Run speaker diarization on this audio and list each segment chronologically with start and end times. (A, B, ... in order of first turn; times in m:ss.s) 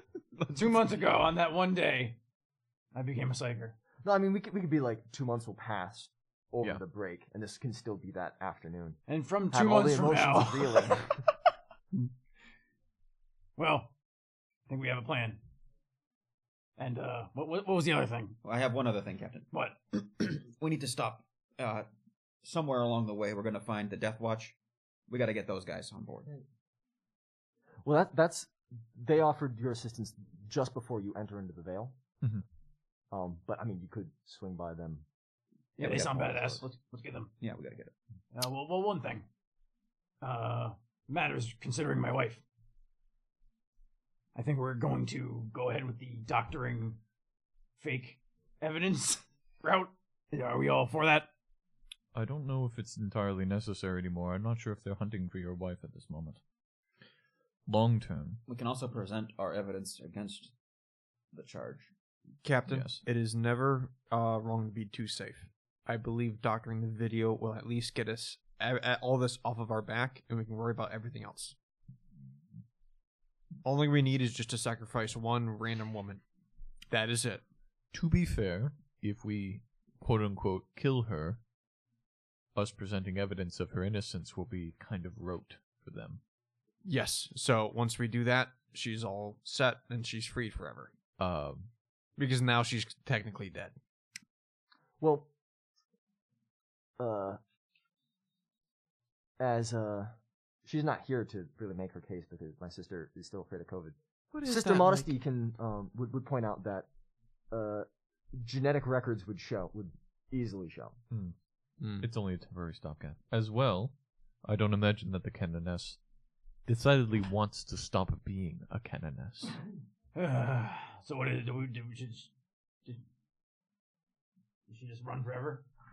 0:00.5-0:02.2 A
0:02.9-0:03.7 A
0:04.0-0:09.0 B
0:09.1-0:11.2 A
0:09.5-0:11.1 B
0:13.6-0:13.9 A
0:14.7-0:15.4 A
0:16.8-0:18.4 A
0:18.4-0:19.5 C
0:19.5-0:19.8 A
0:20.2-0:21.9 C
0:22.4-0:24.6 C
0:25.1-0:26.3 C
0:27.8-0:32.0 B
0:33.1-0:35.0 B
0:35.8-0:36.7 C
0:35.8-0:37.3 A
0:35.8-0:36.6 B
0:37.4-0:37.9 C
0:38.3-0:39.2 A
0:40.2-0:42.4 A
0:44.3-0:47.0 A
0:47.8-0:51.3 A
0:52.1-0:56.4 D
0:57.6-0:58.4 D
0:58.4-1:00.5 C
1:01.3-1:01.9 C
1:02.4-1:11.5 E
1:02.7-1:03.0 D
1:13.6-1:16.2 E
1:16.9-1:17.4 E
1:17.9-1:21.4 D
1:22.5-1:26.2 D
1:26.8-1:30.9 E
1:31.2-1:31.7 D
1:32.1-1:33.7 E
1:35.0-1:35.3 B
1:37.0-1:37.4 B
1:39.4-1:46.9 B
1:44.3-1:45.0 E
1:47.5-1:51.0 B
1:51.1-1:56.0 D
1:51.8-1:52.1 E
1:56.6-1:59.6 D
2:00.1-2:02.3 A
2:04.7-2:05.6 A